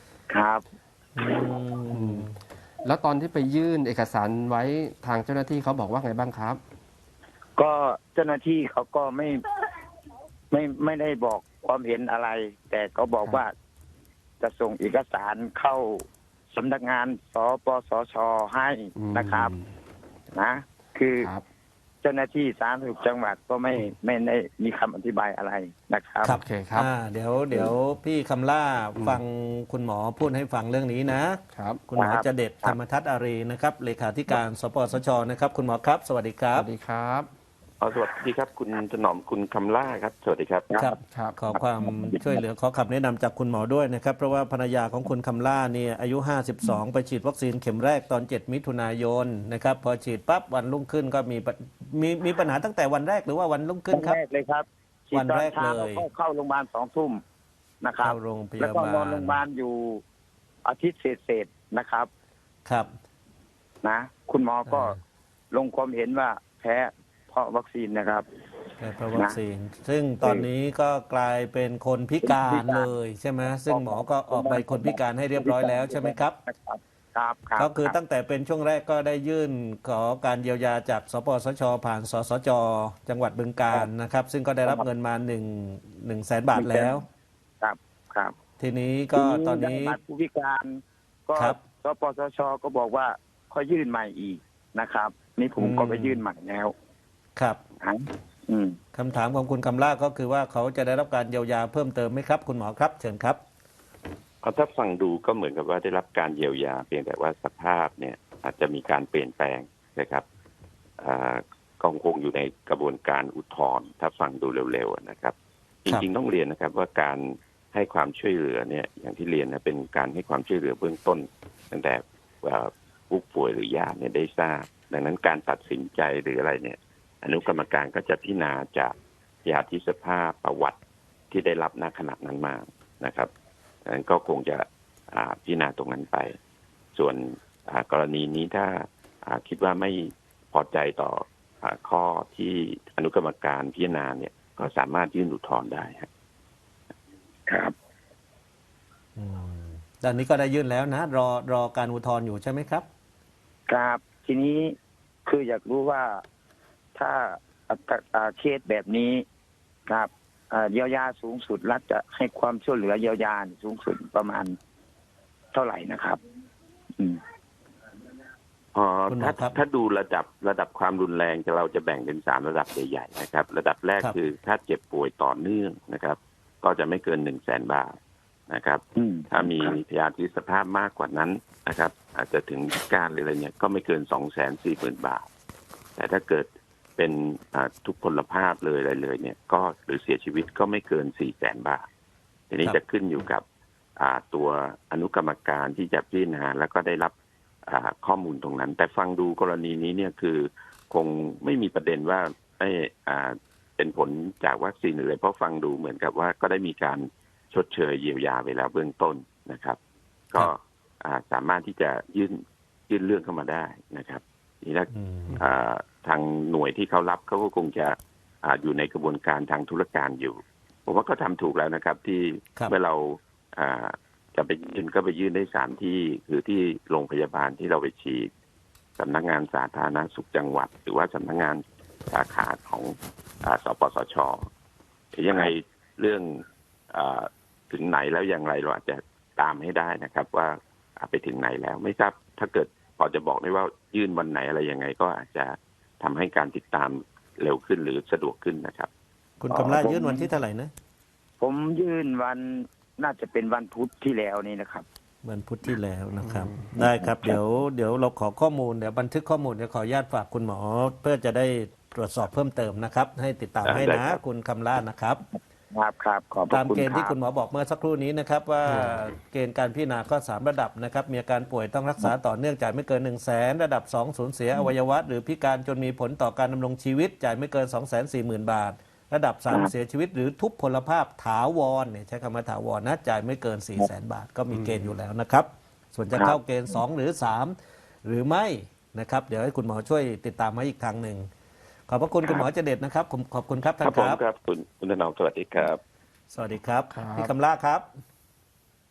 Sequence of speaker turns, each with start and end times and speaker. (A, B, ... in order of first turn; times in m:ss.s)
0:00.3-0:00.6 A
0:01.2-0:02.3 B
0:01.9-0:02.3 C
0:02.8-0:06.6 C
0:07.6-0:09.4 A
0:10.5-0:13.5 A
0:14.4-0:19.5 A
0:19.0-0:19.7 C
0:20.3-0:21.3 A
0:22.0-0:26.4 A
0:26.2-0:36.7 B
0:26.4-0:26.9 C
0:29.0-0:29.2 C
0:31.5-0:31.8 C
0:31.9-0:32.8 A
0:36.5-0:37.3 C
0:37.8-0:40.7 D
0:40.7-0:41.0 A
0:40.8-0:54.2 B
0:41.1-0:41.4 C
0:41.6-0:42.4 A
0:53.9-0:57.2 A
0:55.1-0:56.0 B
0:57.8-1:00.0 A
0:58.0-0:59.4 B
1:00.6-1:02.1 A
1:02.6-1:02.9 B
1:03.8-1:05.0 A
1:04.7-1:05.0 B
1:05.5-1:08.3 A
1:08.8-1:16.4 B
1:09.1-1:09.4 A
1:10.2-1:10.5 A
1:12.2-1:12.9 A
1:13.7-1:18.0 A
1:17.6-1:27.0 B
1:26.6-1:27.0 A
1:27.6-1:28.4 A
1:28.6-1:30.0 B
1:29.1-1:36.7 A
1:31.4-1:31.6 B
1:35.6-1:36.2 B
1:37.8-1:38.8 A
1:38.9-1:43.4 B
1:44.4-1:50.2 D
1:51.0-2:10.8 D
2:11.3-2:13.3 D
2:13.9-2:16.4 D
2:17.0-2:26.1 D
2:27.5-2:27.7 A
2:29.2-2:32.9 B
2:33.7-2:36.2 A
2:37.0-2:39.2 A
2:39.9-2:44.6 A
2:45.5-2:46.2 A
2:48.7-2:58.0 D
2:49.1-2:49.6 B
2:58.5-3:05.3 D
2:59.0-2:59.8 A
3:06.0-3:11.9 D
3:12.5-3:13.4 D
3:14.0-3:17.1 D
3:17.7-3:29.8 D
3:30.3-3:48.3 D
3:34.9-3:35.4 B
3:49.0-3:54.5 D
3:55.1-4:08.9 D
4:09.4-4:10.7 B
4:09.5-4:10.3 A
4:11.4-4:14.9 A
4:15.2-4:25.2 B
4:16.2-4:16.6 C
4:16.8-4:17.4 A
4:23.6-4:24.2 D
4:25.7-4:27.1 A
4:26.5-4:51.3 B
4:44.5-4:44.9 C
4:51.9-4:54.2 B
4:52.2-4:52.5 D
4:53.8-4:55.8 D
4:56.3-4:57.8 B
4:56.9-4:57.4 C